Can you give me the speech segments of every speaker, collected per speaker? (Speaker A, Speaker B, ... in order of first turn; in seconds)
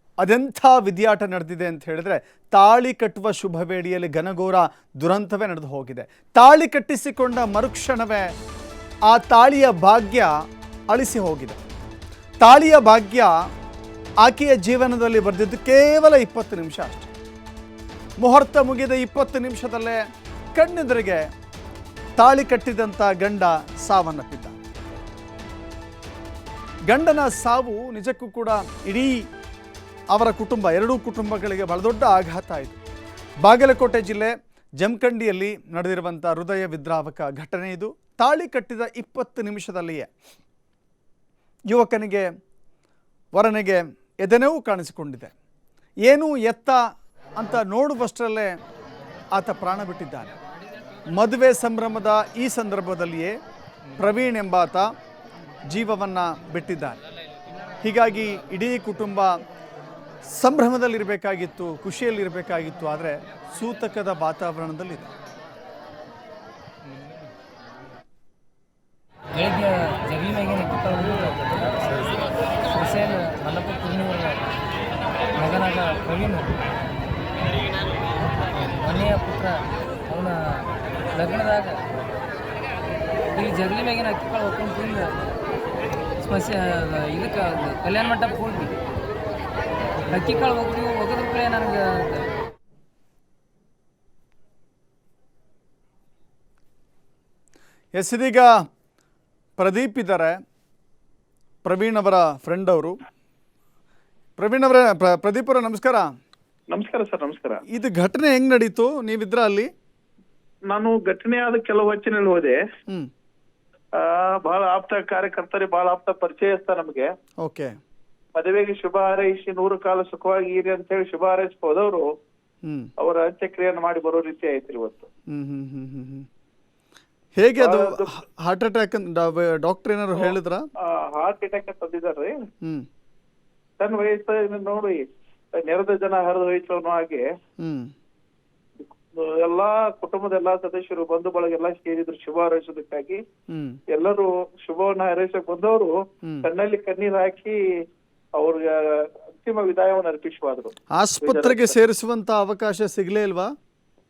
Speaker A: 0.2-8.3, 9.1-10.3, 10.9-11.6, 12.4-13.3, 14.2-17.1, 18.2-20.0, 20.5-21.2, 22.2-24.6, 26.9-29.2, 30.1-32.8, 33.4-40.1, 41.7-42.3, 43.3-45.3, 46.0-46.8, 47.4-48.5, 49.3-50.3, 51.1-53.3, 54.0-54.9, 55.7-57.0, 57.8-59.3, 60.3-65.1, 98.0-98.5, 99.6-100.3, 101.6-103.0, 104.4-106.1, 107.7-109.7, 117.4-117.7, 122.6-122.9, 125.3-126.3, 127.4-130.6, 137.6-137.9, 143.5-143.8, 150.9-153.5
Speaker B: 69.3-74.6, 75.3-76.6, 78.2-81.9, 83.3-85.3, 86.2-88.8, 90.0-92.3
Speaker C: 106.7-107.6, 110.7-112.6, 114.0-117.1, 118.3-122.1, 123.0-125.1, 127.6-128.1, 130.1-132.3, 133.8-135.0, 135.6-137.3, 138.8-143.2, 143.9-145.9, 146.4-147.6, 148.4-151.8